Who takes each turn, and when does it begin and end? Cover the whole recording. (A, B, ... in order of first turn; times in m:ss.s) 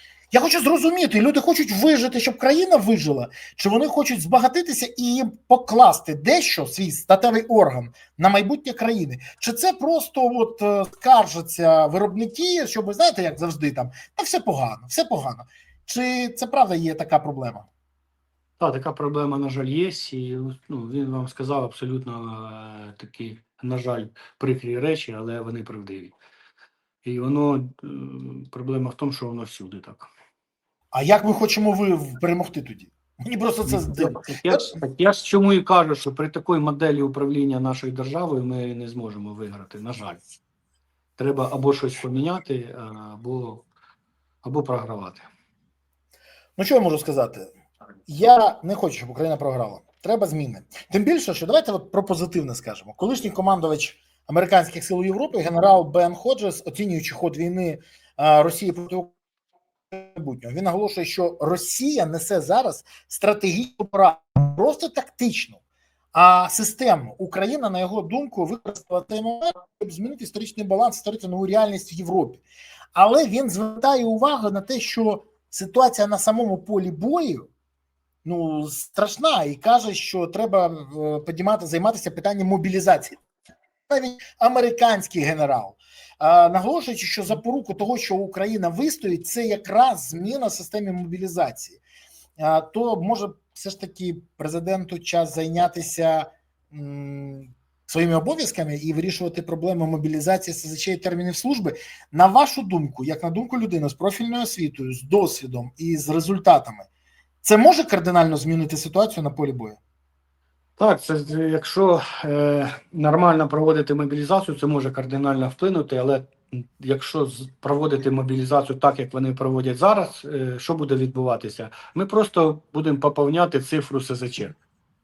0:00.3-0:17.6 A
0:18.6-0:26.1 B
0:27.0-0:30.1 B
0:30.9-0:34.8 A
0:33.6-0:40.2 B
0:41.2-0:43.6 B
0:44.4-0:45.3 B
0:46.6-0:47.5 A
0:48.1-0:59.1 A
0:59.9-1:05.6 A
1:06.1-1:17.5 A
1:18.2-1:23.2 A
1:23.9-1:31.8 A
1:32.4-1:46.9 A
1:47.4-1:49.8 A
1:50.8-2:04.6 B